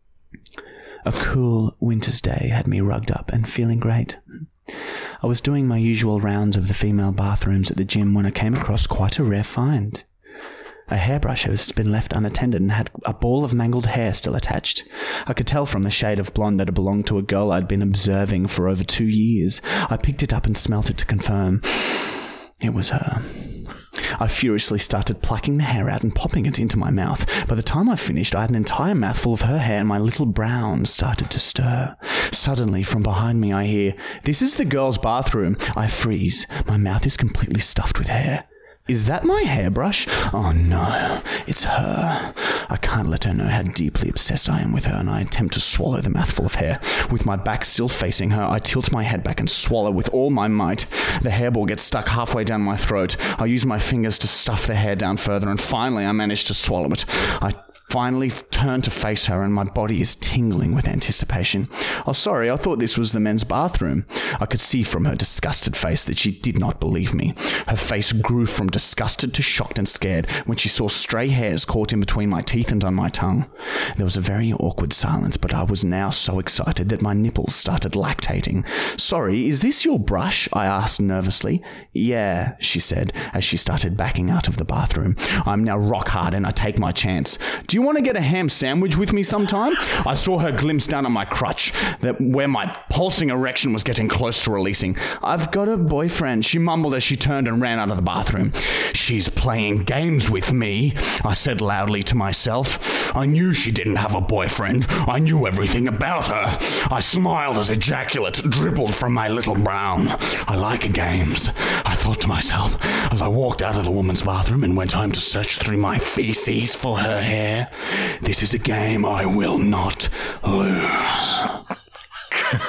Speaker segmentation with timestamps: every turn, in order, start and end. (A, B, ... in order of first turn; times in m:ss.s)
0:01.0-0:04.2 A
0:05.2-0:10.0 A
0:10.9-2:01.6 A